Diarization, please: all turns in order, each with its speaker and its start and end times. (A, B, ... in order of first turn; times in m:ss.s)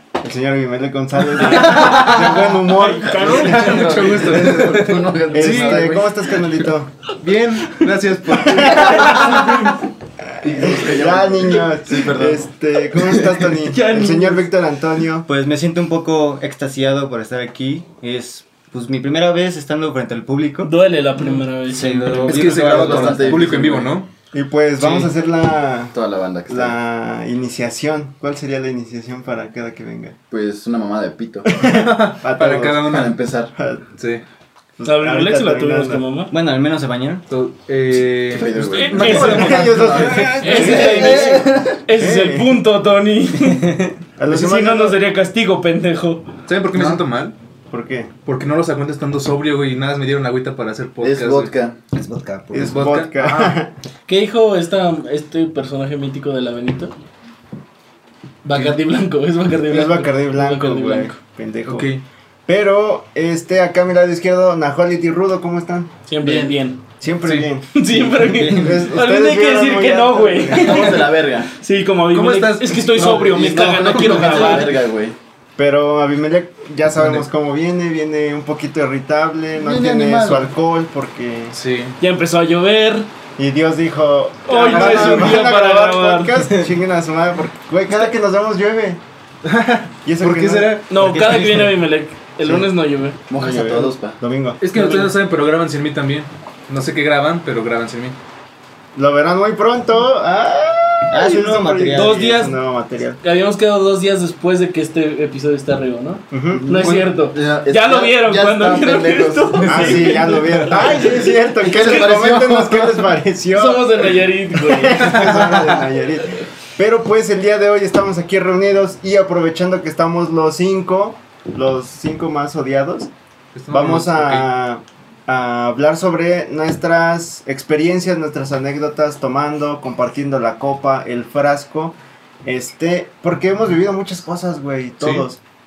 0:00.2-0:04.0 A
0:01.6-0:02.1 B
0:01.6-0:02.1 C
0:01.8-0:02.0 D
0:02.7-0:04.4 B
0:03.0-0:04.2 D
0:03.2-0:05.9 C
0:04.0-0:06.1 E
0:05.3-0:06.9 A
0:07.2-0:09.4 C
0:08.4-0:09.4 A
0:08.7-0:09.6 E
0:09.2-0:09.7 B
0:10.4-0:12.4 E
0:10.4-0:15.3 A
0:13.0-0:13.4 E
0:13.6-0:14.4 B
0:15.3-0:23.9 D
0:20.6-0:22.3 B
0:22.1-0:23.9 E
0:22.2-0:24.1 C
0:24.3-0:25.9 A
0:24.8-0:25.1 C
0:25.9-0:26.7 E
0:26.5-0:30.2 A
0:30.3-0:31.7 E
0:31.6-0:33.0 A
0:31.6-0:33.2 C
0:32.9-0:33.5 E
0:33.6-0:33.8 A
0:34.0-0:34.2 C
0:34.8-0:36.0 A
0:34.8-0:36.3 B
0:36.3-0:37.2 D
0:37.3-0:41.0 C
0:38.2-0:39.6 E
0:38.7-0:46.3 B
0:39.0-0:39.5 D
0:39.2-0:42.6 A
0:40.5-0:41.8 E
0:40.7-0:41.2 D
0:44.2-0:45.0 A
0:46.5-0:47.4 C
0:46.8-0:47.0 E
0:47.7-0:48.1 A
0:48.2-0:51.5 C
0:51.0-0:51.8 E
0:51.9-0:52.8 D
0:52.5-0:53.7 A
0:52.7-0:53.6 C
0:54.1-0:56.9 B
0:58.4-1:01.1 B
0:58.5-0:58.8 C
0:59.7-1:01.9 A
1:01.7-1:02.0 C
1:02.5-1:05.9 A
1:06.1-1:06.8 B
1:07.0-1:11.0 A
1:07.2-1:07.5 C
1:07.7-1:14.7 B
1:08.3-1:08.8 D
1:10.5-1:11.5 E
1:12.1-1:14.6 C
1:13.0-1:15.2 E
1:15.6-1:21.6 A
1:17.0-1:17.2 C
1:19.6-1:20.5 E
1:21.5-1:22.0 C
1:22.0-1:23.1 B
1:23.4-1:29.0 A
1:24.5-1:26.7 B
1:24.7-1:25.4 C
1:29.4-1:30.9 C
1:30.0-1:30.8 A
1:30.9-1:33.2 B
1:30.9-1:31.8 D
1:32.4-1:32.7 A
1:33.3-1:34.2 E
1:33.4-1:34.6 A
1:34.6-1:38.2 C
1:34.7-1:35.1 B
1:38.9-1:43.2 A
1:41.1-1:42.2 D
1:41.9-1:42.6 B
1:43.2-1:51.2 B
1:46.3-1:46.7 A
1:46.5-1:50.7 E
1:49.7-2:03.1 A
1:51.6-1:53.1 E
1:51.7-1:52.0 B
1:53.5-1:55.3 B
1:55.0-1:55.3 C
2:03.5-2:04.4 C
2:03.7-2:15.4 A